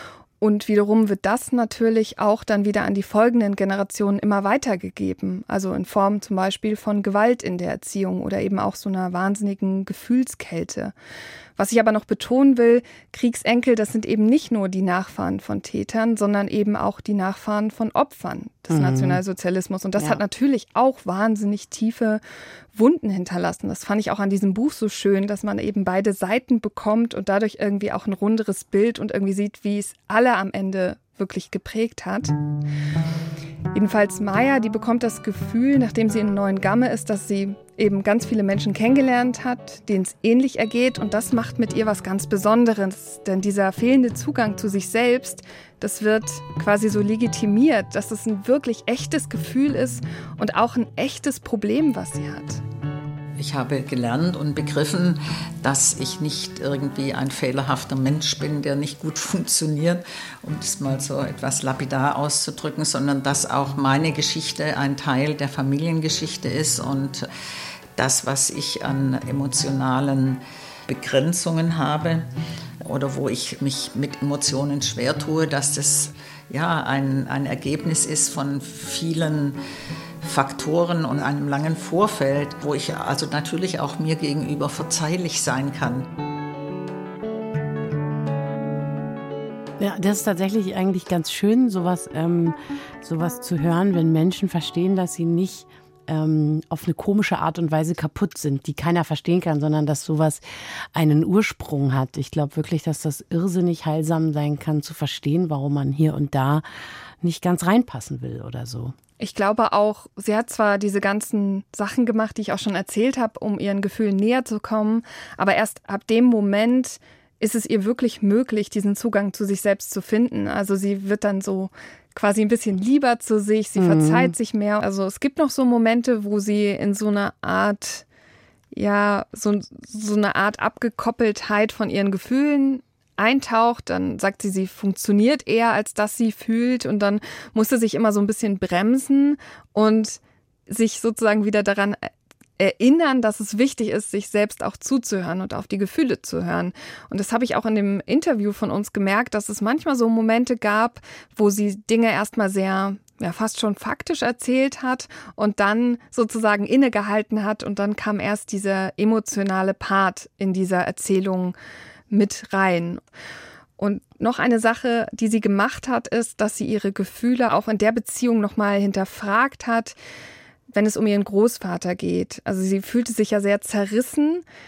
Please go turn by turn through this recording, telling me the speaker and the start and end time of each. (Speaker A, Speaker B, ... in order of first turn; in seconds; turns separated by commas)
Speaker A: 0.4-10.9, Speaker A: 11.6-22.2, Speaker B: 18.7-19.2, Speaker A: 22.7-32.3, Speaker A: 33.7-52.6, Speaker C: 53.4-67.3, Speaker C: 68.0-72.3, Speaker C: 72.8-79.6, Speaker C: 80.2-86.0, Speaker B: 89.8-100.4, Speaker B: 100.9-106.6, Speaker B: 107.2-108.9, Speaker A: 109.2-128.0, Speaker B: 123.8-124.3, Speaker A: 128.7-161.5, Speaker A: 162.1-163.0, Speaker A: 163.8-169.9, Speaker A: 170.7-174.4